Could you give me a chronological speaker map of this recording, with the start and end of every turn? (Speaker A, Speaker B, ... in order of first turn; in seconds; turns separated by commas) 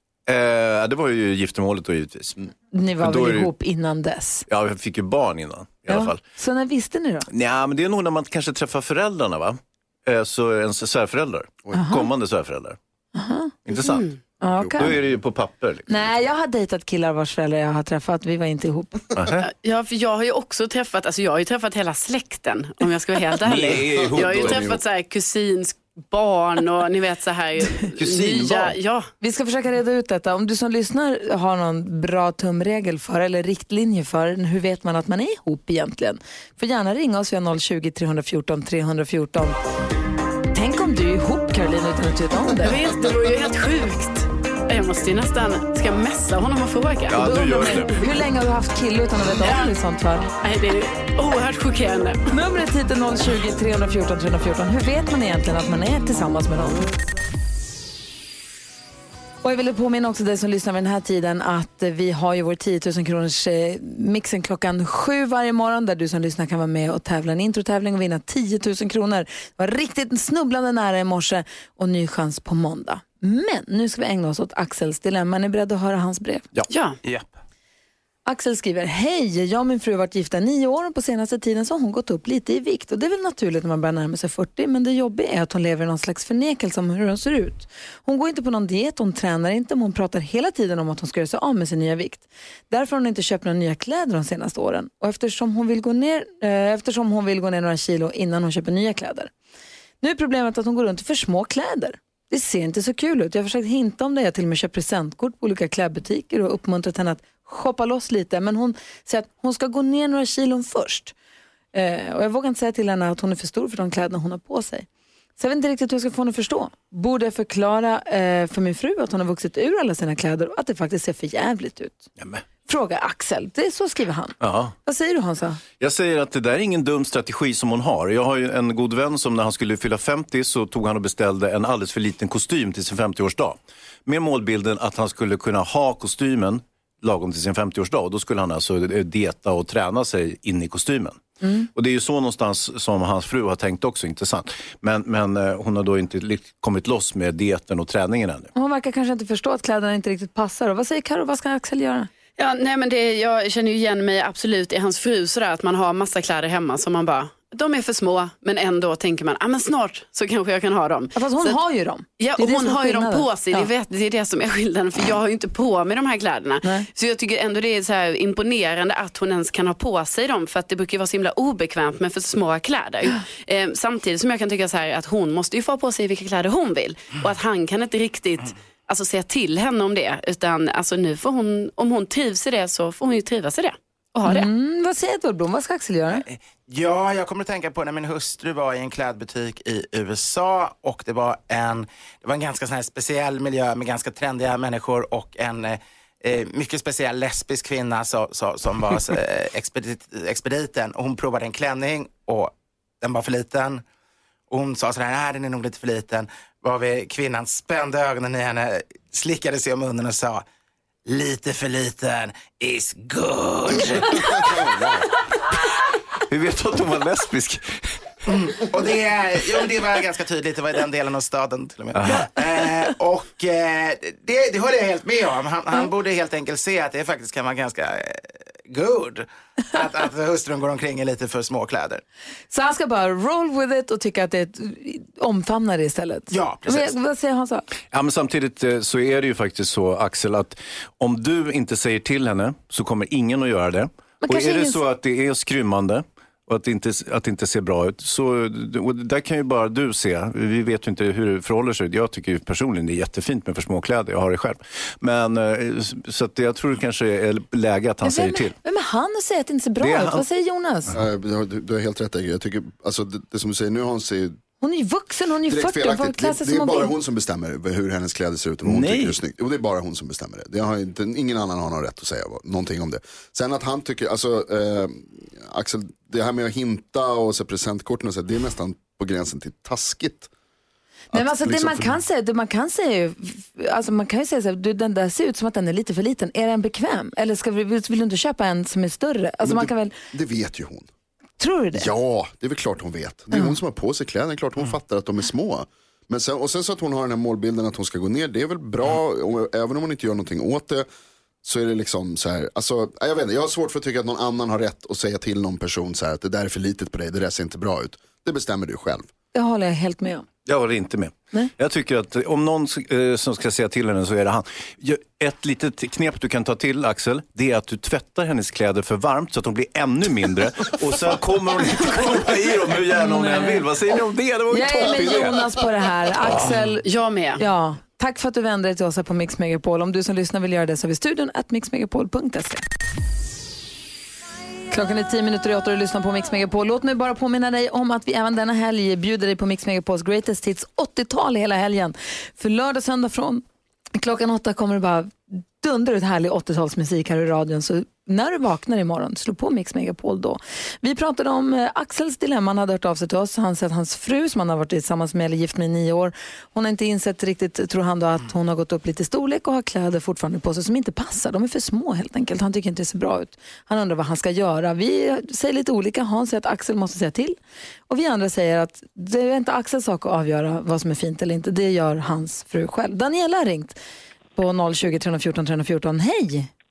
Speaker A: 0.3-2.4, Speaker B: 2.7-4.5, Speaker A: 3.0-3.5, Speaker A: 4.5-6.2, Speaker B: 5.9-7.3, Speaker A: 7.3-12.8, Speaker B: 11.7-12.1, Speaker B: 13.1-13.5, Speaker A: 13.7-14.0, Speaker C: 13.8-14.1, Speaker B: 14.4-14.9, Speaker D: 14.5-15.1, Speaker A: 14.8-16.1, Speaker B: 15.9-19.0, Speaker A: 19.1-19.5, Speaker C: 19.4-29.1, Speaker A: 23.4-24.7, Speaker D: 23.9-24.8, Speaker A: 28.0-28.7, Speaker B: 29.2-39.5, Speaker B: 40.5-42.8, Speaker C: 42.6-47.2, Speaker A: 47.1-48.0, Speaker B: 47.1-50.3, Speaker C: 49.4-49.7, Speaker C: 50.4-52.2, Speaker B: 52.3-56.8, Speaker B: 59.4-76.5, Speaker A: 76.5-77.2, Speaker C: 76.7-77.0, Speaker B: 78.2-99.3, Speaker B: 100.0-111.1, Speaker B: 111.7-122.1, Speaker A: 122.2-122.4, Speaker B: 122.7-125.6, Speaker A: 124.4-124.7, Speaker A: 125.8-141.2, Speaker B: 141.4-141.7, Speaker A: 141.7-148.5, Speaker B: 148.5-152.1, Speaker C: 152.4-161.6, Speaker B: 161.1-163.7, Speaker C: 162.2-184.5, Speaker B: 184.2-186.2, Speaker E: 186.1-203.8, Speaker E: 204.5-210.4, Speaker E: 211.1-214.9, Speaker D: 214.3-215.0, Speaker A: 216.2-217.8, Speaker E: 218.2-232.0, Speaker A: 221.9-222.3, Speaker B: 232.5-237.7, Speaker E: 236.3-236.9, Speaker A: 237.9-258.5, Speaker B: 244.2-244.8, Speaker B: 258.0-260.9, Speaker A: 259.8-260.2, Speaker D: 260.9-264.4, Speaker B: 264.6-266.9, Speaker D: 265.5-280.3, Speaker A: 268.6-269.2, Speaker D: 281.1-281.9, Speaker B: 281.1-289.9, Speaker D: 289.4-290.9, Speaker B: 291.4-291.9, Speaker D: 291.7-300.9, Speaker D: 301.4-309.1, Speaker B: 309.3-310.2, Speaker A: 310.4-325.4, Speaker B: 322.9-323.6, Speaker B: 324.5-326.9, Speaker C: 326.8-327.4, Speaker B: 327.4-332.6, Speaker B: 334.7-367.4, Speaker B: 367.9-373.8, Speaker B: 374.4-376.5